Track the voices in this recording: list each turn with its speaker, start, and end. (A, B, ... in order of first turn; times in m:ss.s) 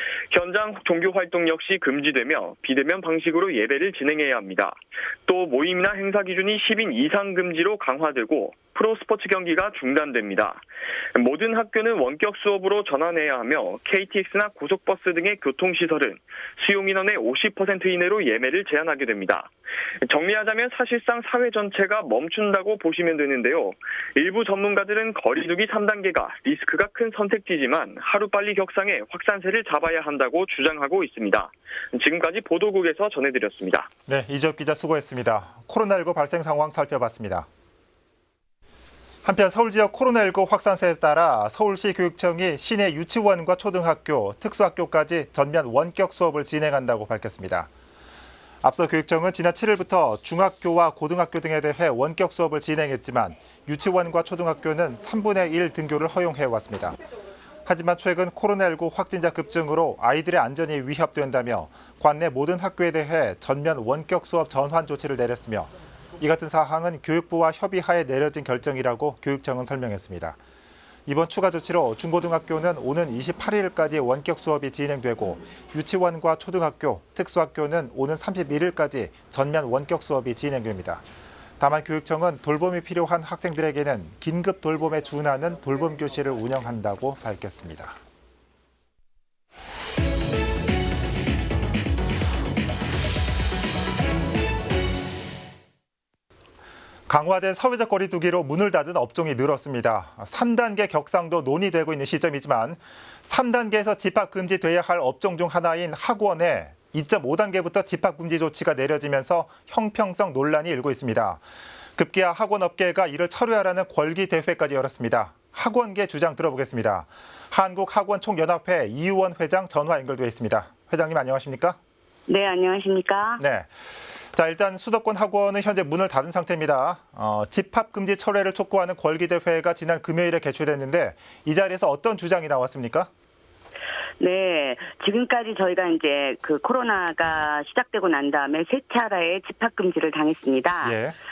0:00.3-0:10.6 A
0:11.2-0:19.5 A
0:20.1-0:33.9 A
0:34.1-0:37.5 B
0:39.2-0:47.7 B
0:48.6-0:57.0 B
0:57.6-1:10.4 B
1:11.1-1:21.0 B
1:21.6-1:28.0 B
1:37.1-1:51.4 B
1:52.0-2:01.8 B
2:02.3-2:03.4 C
2:03.4-2:13.1 B
2:14.2-2:21.0 C
2:20.8-2:21.2 B